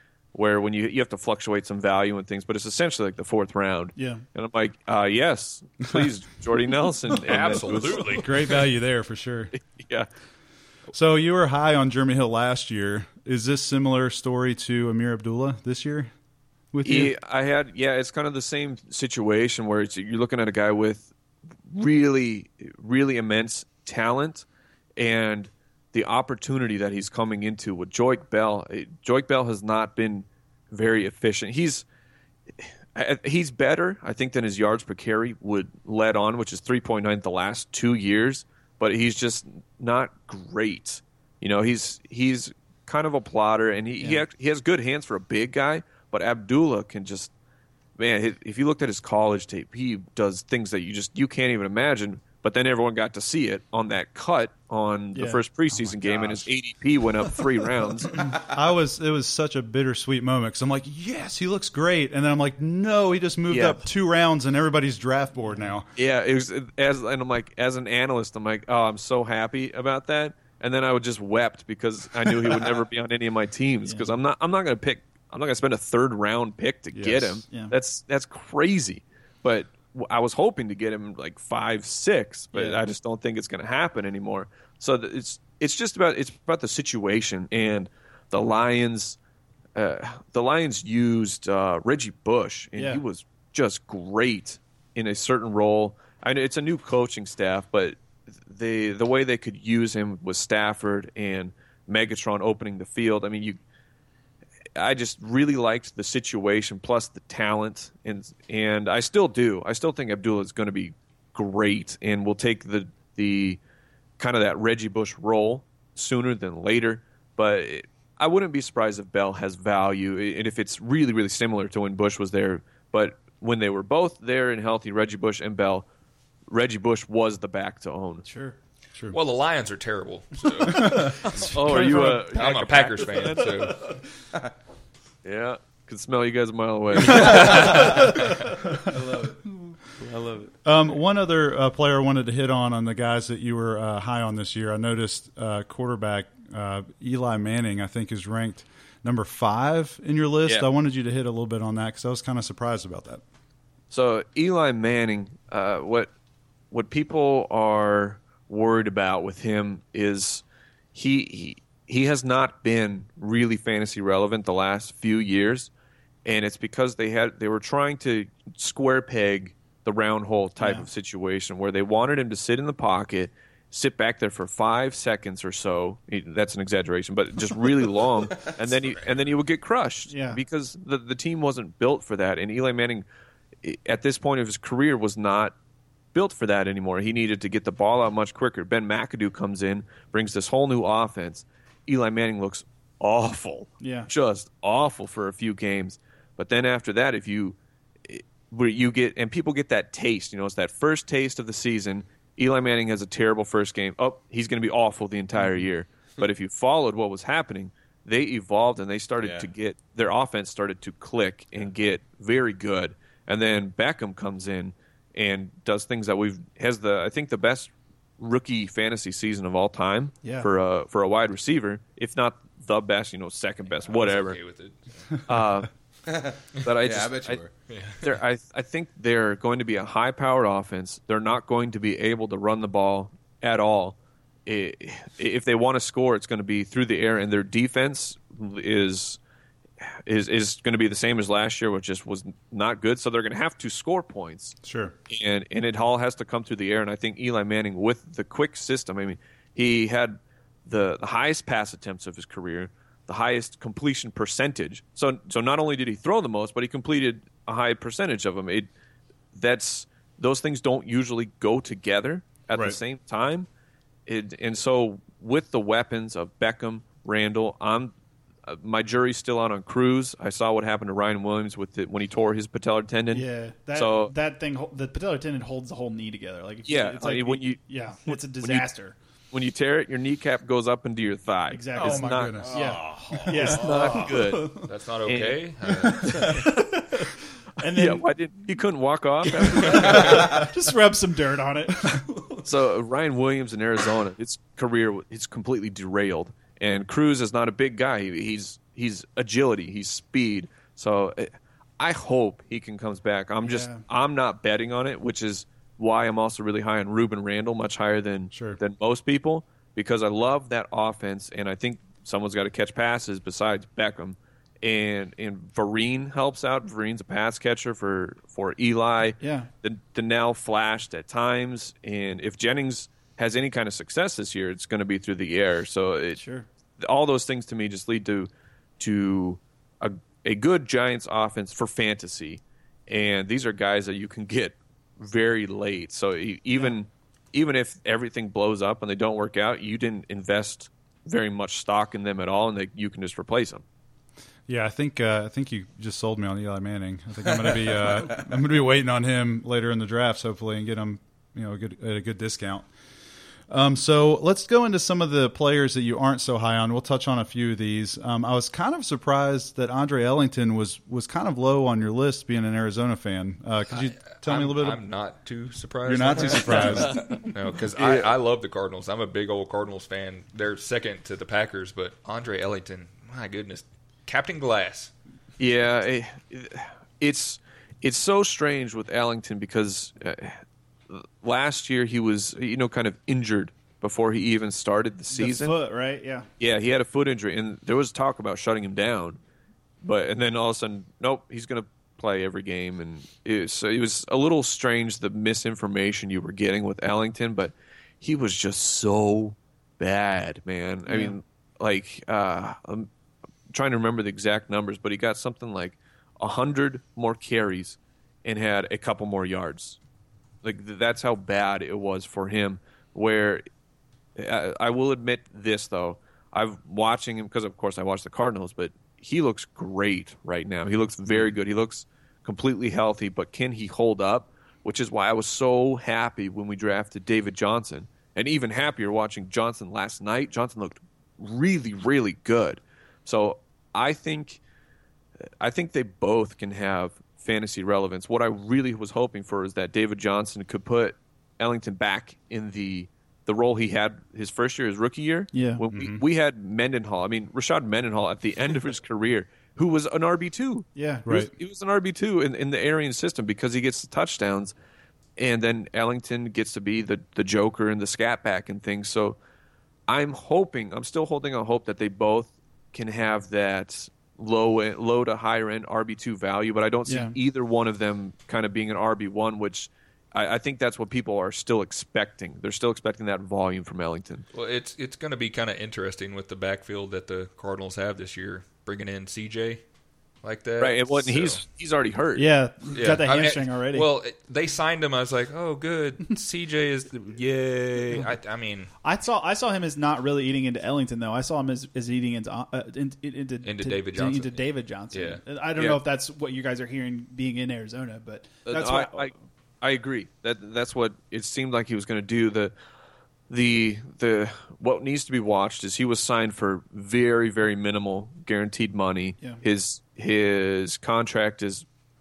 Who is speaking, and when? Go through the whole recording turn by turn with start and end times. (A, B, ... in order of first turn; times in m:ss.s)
0:00.3-0:08.2 A
0:04.0-0:04.2 B
0:07.2-0:08.6 C
0:08.0-0:09.5 D
0:09.5-0:10.1 A
0:10.9-0:16.1 D
0:16.7-0:17.1 D
0:16.8-0:21.1 A
0:21.6-0:24.4 A
0:25.0-0:31.8 A
0:32.6-0:47.3 A
0:48.0-0:58.2 A
0:55.1-0:56.3 B
0:58.3-1:05.9 D
1:03.5-1:03.8 A
1:06.0-1:29.2 A
1:16.9-1:17.4 D
1:17.5-1:17.7 B
1:22.5-1:22.8 B
1:29.7-1:43.6 A
1:32.7-1:33.0 B
1:44.8-1:53.6 A
1:54.2-2:05.8 A
2:06.5-2:08.2 A
2:08.2-2:08.6 B
2:09.1-2:13.9 C
2:10.7-2:11.1 D
2:11.3-2:12.5 B
2:11.3-2:13.7 A
2:15.2-2:18.3 A
2:17.1-2:18.2 C
2:18.8-2:20.5 E
2:20.6-2:33.2 D
2:33.9-2:36.1 A
2:36.7-2:40.4 A
2:40.9-2:45.7 A
2:46.2-3:03.0 A
2:50.6-2:50.9 B
3:00.1-3:00.4 B
3:03.6-3:05.5 A
3:06.1-3:44.4 A
3:13.8-3:14.1 B
3:29.2-3:29.5 E
3:40.2-3:40.5 B
3:43.8-3:45.2 C
3:45.2-3:45.7 A
3:46.0-3:47.5 E
3:46.6-3:47.4 A
3:47.7-3:48.1 C
3:48.0-3:59.2 A
4:00.0-4:04.6 A
4:04.6-4:04.9 D
4:05.1-4:18.7 A
4:19.3-4:23.5 A
4:22.5-4:22.8 D
4:24.0-4:27.9 A
4:28.4-4:34.1 A
4:33.1-4:38.9 B
4:36.6-4:38.7 A
4:39.3-4:42.6 A
4:41.5-4:44.7 B
4:41.7-4:43.6 D
4:42.4-4:44.0 E
4:43.2-4:46.6 A
4:44.5-4:46.5 C
4:46.1-4:48.1 B
4:47.7-4:50.4 A
4:49.4-4:52.4 B
4:49.4-4:50.0 C
4:52.4-5:26.2 A
5:03.4-5:03.8 B
5:08.3-5:08.6 D
5:19.2-5:19.5 B
5:26.2-5:26.5 B
5:26.8-5:43.6 A
5:44.5-5:52.7 D
5:47.5-5:48.2 E
5:53.5-6:04.8 D
6:03.7-6:14.9 C
6:05.8-6:07.1 D
6:07.8-6:08.1 A
6:15.4-6:25.5 A
6:25.1-6:26.3 B
6:26.4-6:29.2 A
6:29.8-6:42.9 A
6:40.8-6:41.2 B
6:43.5-6:49.8 A
6:50.4-6:53.4 A
6:54.2-7:14.4 A
7:15.4-7:34.5 A
7:25.3-7:25.6 B
7:25.7-7:26.0 D
7:30.8-7:31.1 B
7:31.0-7:31.3 D
7:35.2-7:39.2 A
7:39.9-7:54.2 A
7:46.9-7:47.1 B
7:54.3-7:59.6 C
8:00.2-8:01.4 C
8:00.6-8:02.3 A
8:02.2-8:03.9 B
8:02.7-8:08.7 C
8:08.8-8:19.1 B
8:13.4-8:15.2 C
8:18.4-8:22.5 A
8:23.3-8:31.6 A